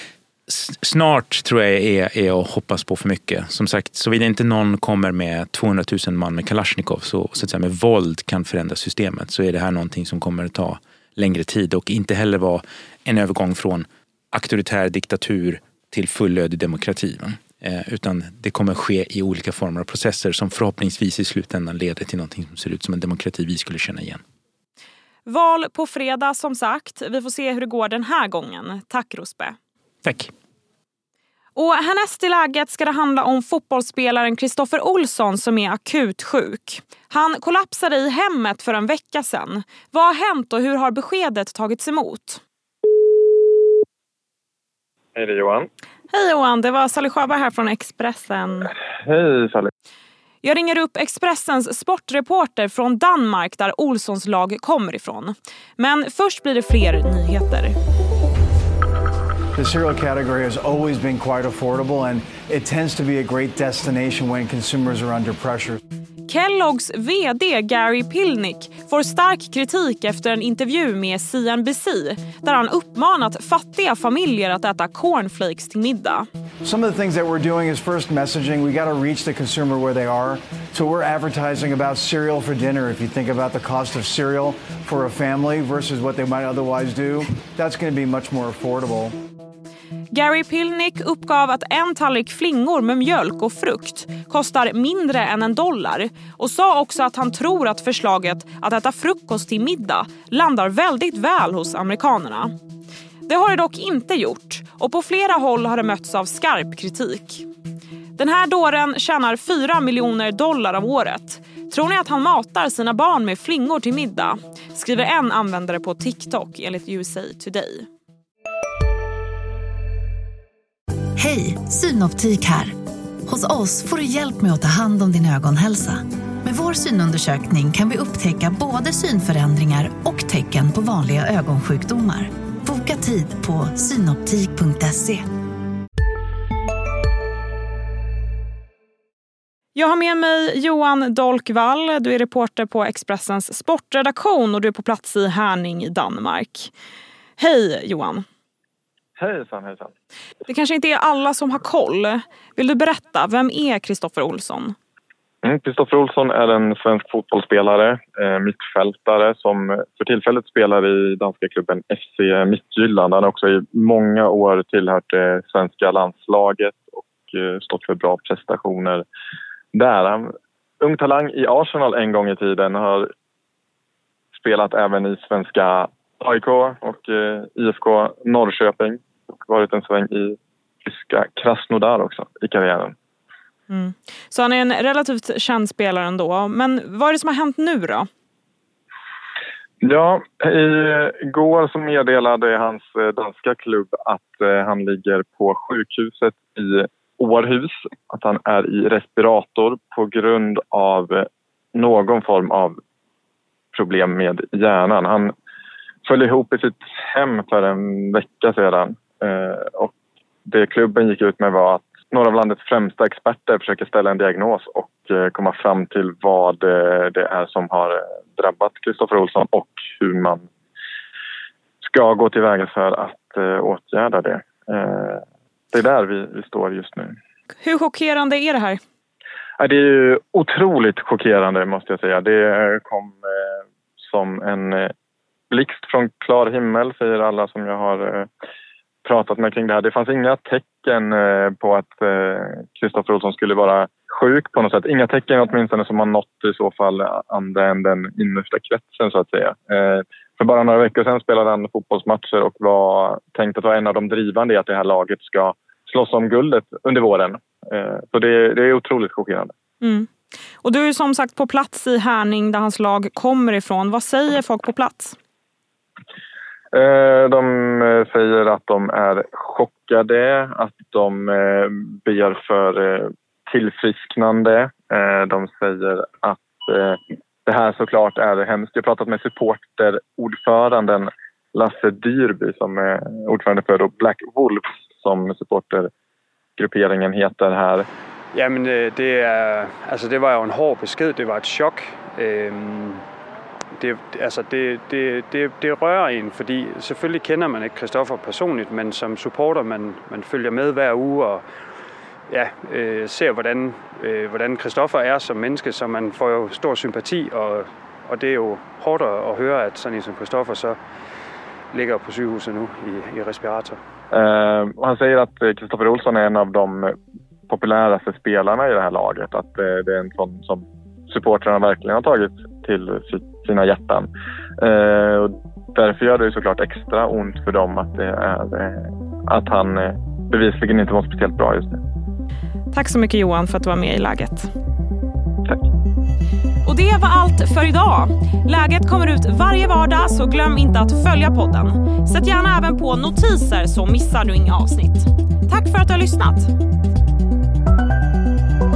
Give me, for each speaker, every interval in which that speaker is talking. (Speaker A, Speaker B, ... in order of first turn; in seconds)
Speaker A: 0.5-24.2, 30.0-30.3
Speaker B: 25.3-29.6, 31.6-42.4, 46.1-48.7, 50.4-57.8, 66.3-76.3, 90.1-102.5, 103.3-107.5, 108.2-117.9, 139.8-146.7, 147.4-148.2, 150.5-154.8, 183.7-188.1, 227.6-228.8, 259.8-260.1, 260.6-265.2, 332.7-334.5, 336.6-346.5
Speaker C: 45.1-45.7, 49.0-49.7, 149.2-149.9, 155.4-169.1, 169.7-170.3, 170.8-173.1, 174.3-182.9, 189.8-202.7, 203.7-205.3, 206.1-209.9, 210.5-220.4, 221.8-225.2, 225.7-227.1, 229.6-234.9, 235.5-238.3, 239.1-259.5, 266.7-285.9, 286.6-287.9, 314.1-316.9, 317.5-324.1, 324.6-331.8
Speaker D: 59.5-65.8, 76.6-89.1
Speaker E: 121.2-122.7, 123.3-135.3
Speaker F: 288.3-293.0, 293.8-301.5, 302.3-310.8, 311.7-313.8